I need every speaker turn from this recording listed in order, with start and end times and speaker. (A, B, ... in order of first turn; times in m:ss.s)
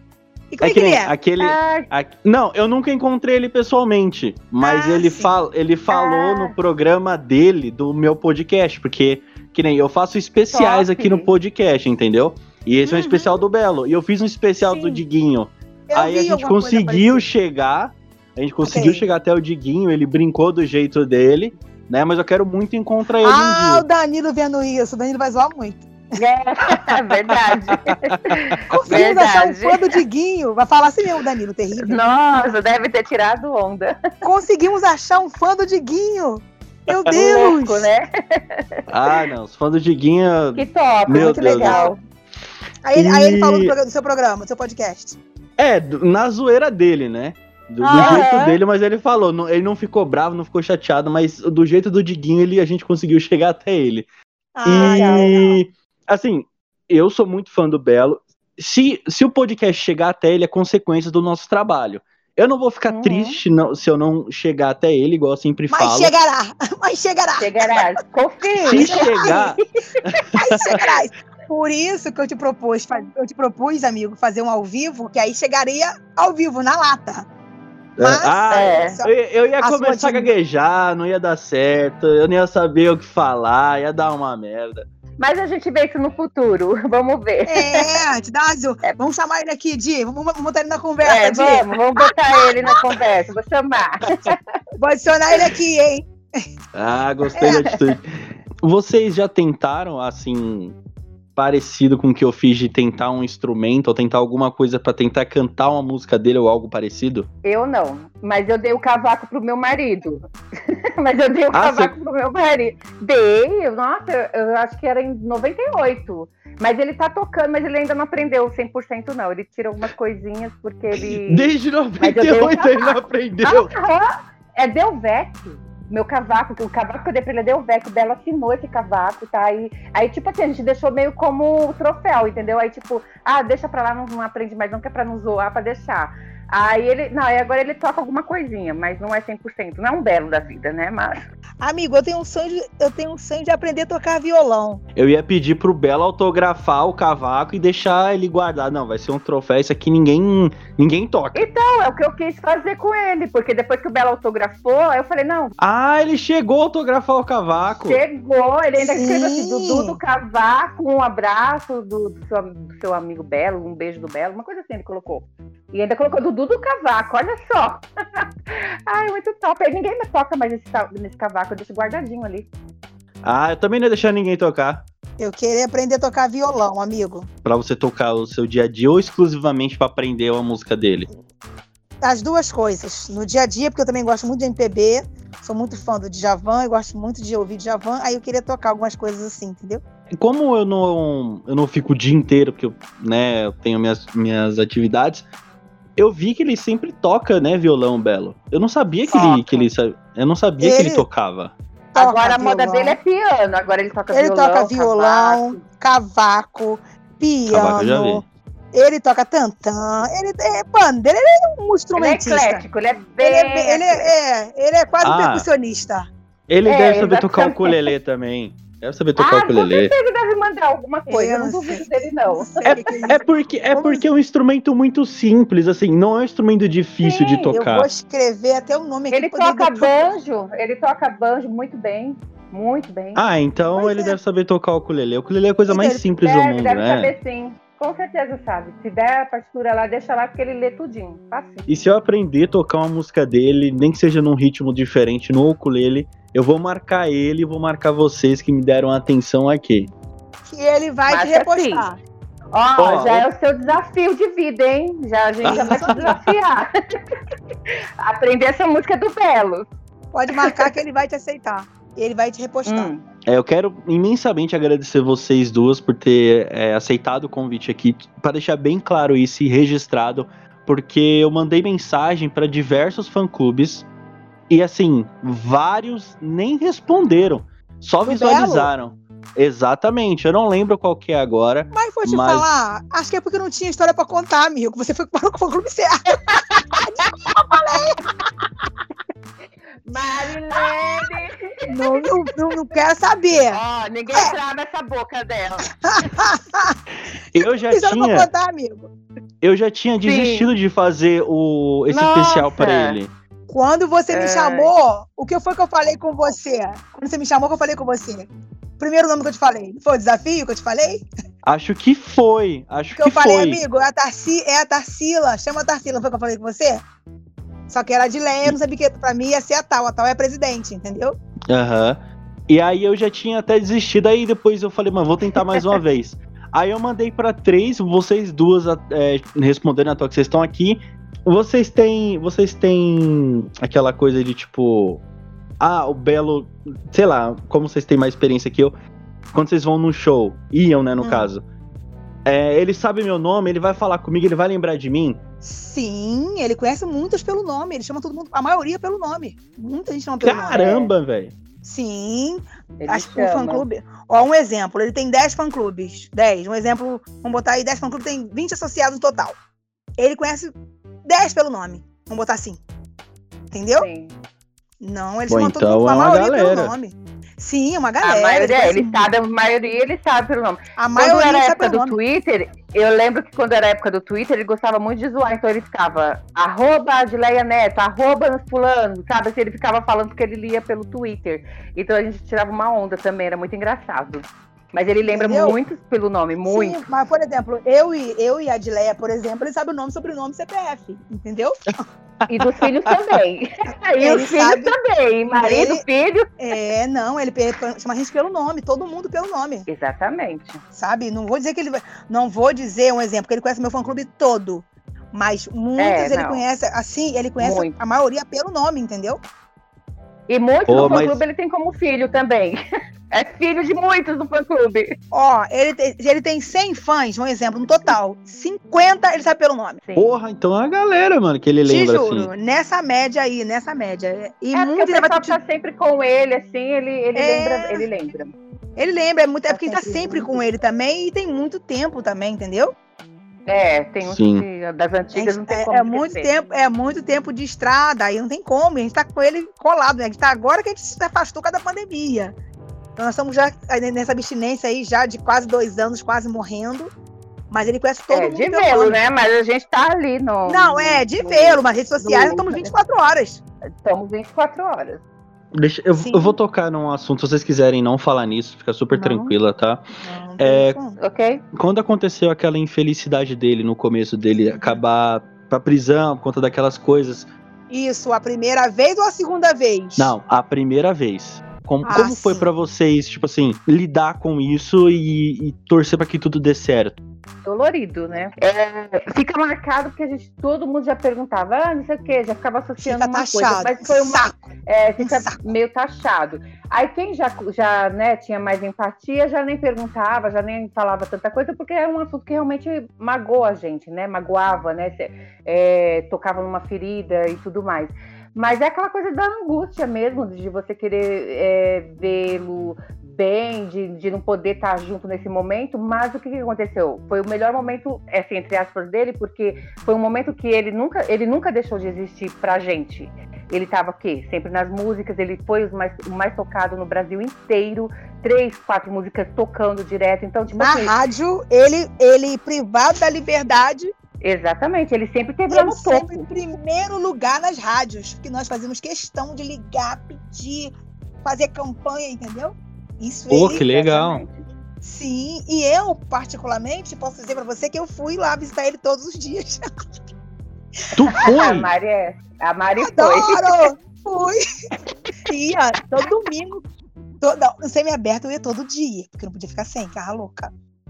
0:00.5-0:01.1 A
0:00.6-0:23.8 B
0:01.4-0:01.9 C
0:04.6-0:05.3 A
0:05.9-0:06.5 C
0:10.5-0:11.3 C
0:12.8-0:13.4 A
0:14.6-0:15.0 A
0:15.9-0:17.2 A
0:18.6-0:19.0 A
0:23.2-0:25.9 A
0:26.2-0:29.8 C
0:26.7-0:28.0 B
0:28.7-0:32.0 A
0:31.8-0:33.9 C
0:34.2-0:37.9 A
0:37.1-0:39.2 C
0:38.9-0:41.8 B
0:40.5-0:42.0 C
0:41.1-0:41.9 A
0:42.8-0:45.2 A
0:42.9-0:43.7 B
0:45.6-0:54.1 B
0:47.8-0:48.4 A
0:47.9-0:48.6 C
0:54.6-0:55.4 A
0:54.6-1:06.1 B
0:54.7-0:55.4 C
1:02.9-1:03.4 C
1:05.7-1:07.8 A
1:07.4-1:09.6 C
1:08.6-1:09.5 A
1:08.6-1:10.9 B
1:10.4-1:17.3 A
1:18.0-1:24.8 B
1:18.0-1:20.3 A
1:18.5-1:19.0 C
1:25.2-1:27.8 C
1:27.5-1:32.8 A
1:31.0-1:34.3 C
1:34.8-1:36.4 A
1:36.7-1:38.1 B
1:37.4-1:37.7 A
1:37.6-1:37.9 C
1:38.6-1:40.8 B
1:41.4-1:47.3 B
1:47.4-2:21.2 C
1:51.5-1:51.9 B
2:00.9-2:03.7 B
2:21.6-2:24.8 A
2:25.0-2:31.4 B
2:31.3-2:35.5 C
2:35.6-2:38.0 B
2:37.9-2:52.5 C
2:38.8-2:40.0 A
2:53.2-2:54.8 B
2:55.2-2:57.3 A
2:57.4-3:01.1 B
3:02.0-3:09.8 A
3:10.1-3:15.2 B
3:16.0-3:21.5 B
3:19.1-3:19.4 A
3:19.1-3:19.6 C
3:20.6-3:21.1 A
3:21.9-3:23.0 A
3:21.9-3:25.6 C
3:24.1-3:32.6 A
3:27.5-3:28.2 B
3:32.0-3:34.1 C
3:33.2-3:36.1 A
3:35.0-3:35.5 B
3:36.5-3:39.9 B
3:36.6-3:37.9 C
3:39.2-3:42.9 C
3:41.1-3:44.0 A
3:42.6-3:47.9 B
3:47.0-3:47.6 C
3:47.5-3:50.1 A
3:49.1-3:53.2 C
3:53.2-3:57.1 B
3:53.8-3:54.2 A
3:55.7-3:56.1 A
3:56.2-4:01.7 C
4:01.7-4:09.9 B
4:10.4-4:12.0 A
4:11.1-4:11.9 C
4:12.5-4:16.7 C
4:12.8-4:13.3 B
4:15.4-4:16.3 B
4:15.5-4:16.0 A
4:18.0-4:19.6 C
4:20.1-4:22.9 A
4:22.7-4:23.0 C
4:23.3-4:33.9 B
4:34.5-4:42.4 B
4:38.0-4:38.7 A
4:41.7-4:48.0 A
4:49.9-4:52.1 C
4:50.6-4:51.1 A
4:51.7-4:53.6 A
4:53.5-4:55.8 C
4:55.8-4:56.8 A
4:57.3-4:58.3 B
4:57.4-4:58.9 A
4:59.4-5:03.1 B
5:00.0-5:00.5 C
5:01.9-5:03.0 C
5:03.5-5:11.0 A
5:04.1-5:04.7 C
5:11.4-5:13.6 B
5:13.0-5:16.8 A
5:17.7-5:21.2 A
5:21.5-5:35.0 B
5:35.6-5:38.7 B
5:39.3-5:41.4 B
5:41.0-5:41.3 A
5:42.2-5:45.2 B
5:45.4-5:50.9 A
5:50.2-5:51.3 B
5:51.6-5:59.4 A
5:52.8-5:53.6 C
6:00.0-6:00.5 A
6:01.0-6:02.6 A
6:03.5-6:03.9 A
6:03.8-6:04.2 C
6:04.8-6:09.1 A
6:05.3-6:06.7 B
6:08.0-6:26.8 C
6:10.8-6:12.0 A
6:25.1-6:25.6 A
6:26.4-6:31.8 A
6:32.2-6:32.9 B
6:32.3-6:36.3 C
6:34.0-6:34.7 A
6:35.3-6:35.8 A
6:36.4-6:39.7 A
6:39.7-6:40.6 C
6:40.7-6:49.2 A
6:45.8-6:46.4 C
6:47.4-6:47.7 C
6:50.3-6:52.6 C
6:50.7-6:51.2 B
6:53.1-6:54.9 C
6:55.1-6:59.8 A
6:59.8-7:00.2 C
7:00.0-7:02.3 B
7:01.6-7:05.4 A
7:04.5-7:08.3 C
7:07.1-7:07.9 A
7:08.8-7:12.7 A
7:09.5-7:10.4 C
7:13.5-7:16.3 C
7:14.0-7:14.4 B
7:15.1-7:22.3 A
7:23.0-7:26.9 A
7:27.5-7:29.0 A
7:28.1-7:32.7 C
7:30.4-7:33.4 A
7:33.8-7:35.0 C
7:35.5-7:39.8 B
7:35.9-7:36.4 A
7:38.9-7:39.3 C
7:40.0-7:41.0 A
7:40.4-7:40.8 B
7:41.0-7:41.4 C
7:41.5-7:47.3 B
7:47.7-7:50.1 A
7:50.0-7:57.0 B
7:51.8-7:52.5 A
7:57.4-8:40.9 C
8:02.8-8:04.4 A
8:05.0-8:05.5 A
8:40.5-8:43.9 A
8:44.2-8:46.2 C
8:45.5-8:50.7 A
8:51.2-8:54.1 A
8:53.3-8:54.2 B
8:53.5-8:54.4 C
8:54.8-8:59.6 A
9:00.9-9:01.7 B
9:01.1-9:03.7 C
9:02.8-9:04.4 A
9:05.2-9:06.6 A
9:07.2-9:10.5 A